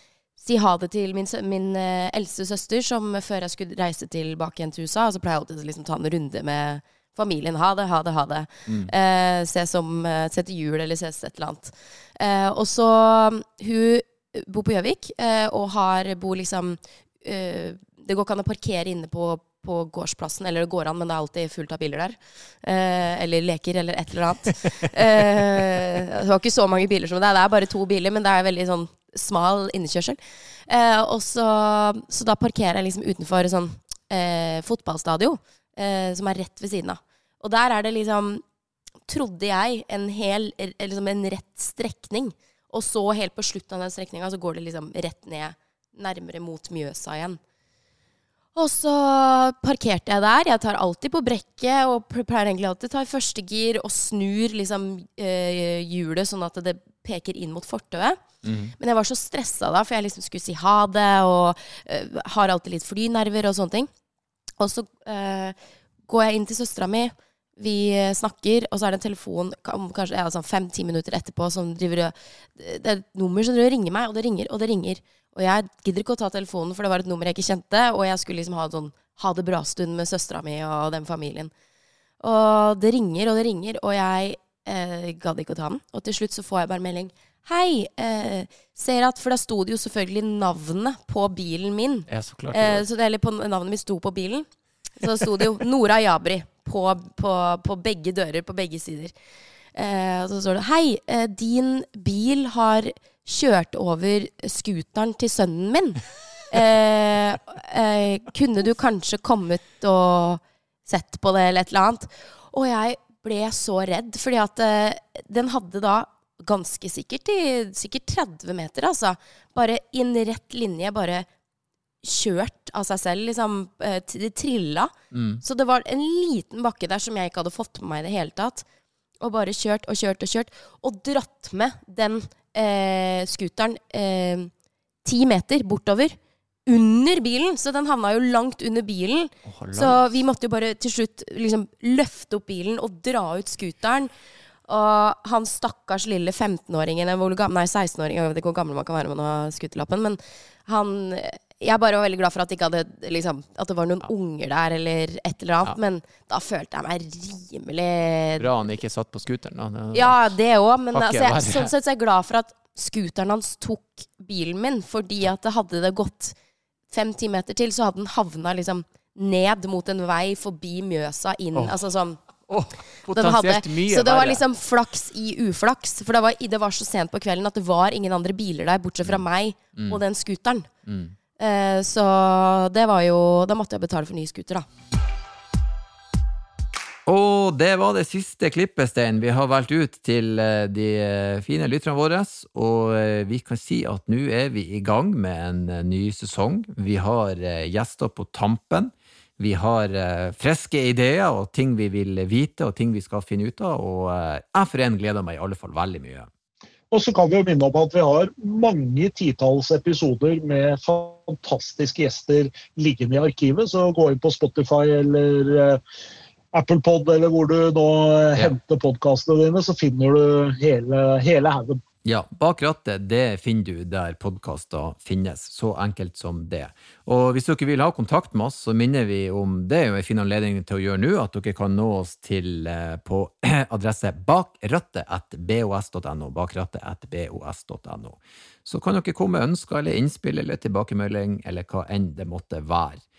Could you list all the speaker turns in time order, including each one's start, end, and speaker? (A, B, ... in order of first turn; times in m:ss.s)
0:00.4-0:38.4 A
0:08.7-0:08.9 B
0:39.1-0:47.4 A
0:48.5-0:58.2 A
0:58.4-0:58.7 B
0:58.8-1:03.9 A
1:04.6-1:05.6 A
1:06.1-1:21.5 A
1:22.2-1:34.5 A
1:32.1-1:32.8 B
1:35.0-1:39.1 A
1:39.7-2:01.3 A
2:02.0-2:08.6 A
2:05.1-2:05.4 B
2:09.2-2:14.5 A
2:15.0-2:16.2 A
2:16.7-2:24.1 A
2:19.4-2:20.1 B
2:24.7-2:38.5 A
2:38.4-2:40.3 B
2:39.9-2:46.3 A
2:40.9-2:41.7 B
2:46.9-2:52.2 A
2:52.5-2:54.4 B
2:53.0-3:00.7 A
3:00.8-3:01.1 B
3:01.4-3:04.6 A
3:07.0-3:26.3 B
3:26.9-3:35.8 C
3:36.5-3:41.8 C
3:42.0-4:03.0 B